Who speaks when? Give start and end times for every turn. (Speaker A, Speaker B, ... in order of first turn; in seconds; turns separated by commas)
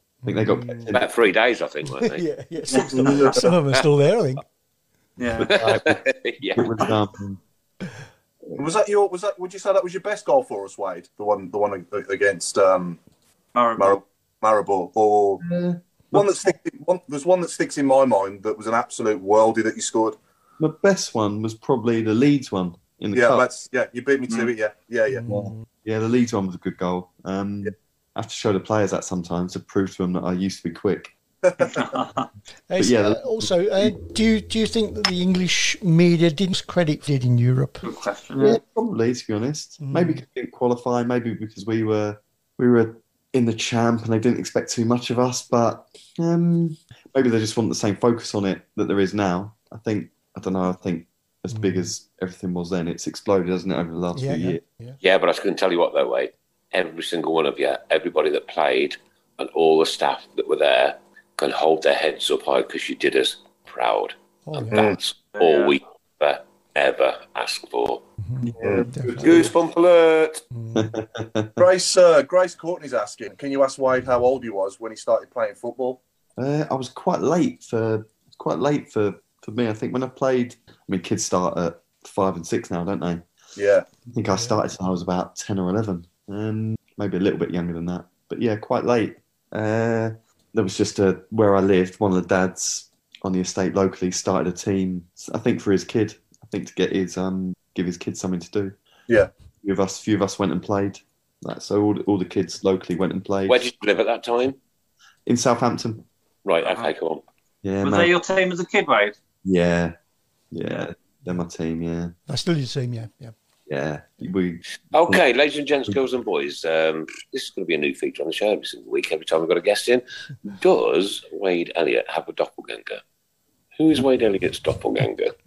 Speaker A: 0.2-1.0, Speaker B: 0.2-1.0, Speaker C: 0.9-2.2, Speaker A: 1.9-4.4, Speaker D: 2.7-3.1, Speaker E: 3.0-3.4, Speaker D: 5.2-5.6, Speaker C: 5.4-6.9, Speaker B: 5.5-6.0, Speaker B: 6.5-7.4, Speaker E: 8.6-13.0, Speaker D: 13.6-14.0, Speaker E: 13.8-15.4, Speaker B: 15.4-16.2, Speaker E: 16.1-20.2, Speaker B: 20.6-23.4, Speaker E: 23.1-25.2, Speaker A: 25.1-25.6, Speaker B: 25.3-31.1, Speaker E: 31.5-31.8, Speaker D: 31.8-32.2, Speaker A: 32.7-37.9, Speaker B: 32.8-33.9, Speaker D: 37.8-38.6, Speaker B: 38.4-54.6, Speaker A: 39.8-40.2, Speaker A: 51.5-51.9, Speaker A: 54.1-55.0, Speaker C: 55.0-68.0, Speaker A: 64.5-65.0, Speaker E: 64.7-65.0, Speaker D: 65.4-65.7, Speaker A: 68.2-69.5, Speaker B: 68.4-69.5, Speaker E: 68.6-68.9, Speaker C: 69.2-70.4, Speaker A: 70.5-71.0, Speaker B: 70.7-71.7, Speaker E: 71.6-76.0, Speaker B: 76.4-83.2, Speaker E: 83.6-83.9, Speaker B: 84.1-98.8, Speaker A: 84.3-84.6, Speaker B: 99.6-103.7, Speaker C: 103.5-104.6, Speaker B: 105.3-106.1, Speaker C: 106.5-107.2, Speaker B: 107.6-108.2, Speaker D: 107.8-109.2, Speaker B: 109.4-110.0, Speaker B: 110.5-112.2, Speaker A: 112.3-113.3, Speaker B: 113.7-115.2, Speaker C: 114.9-123.0, Speaker C: 123.8-125.4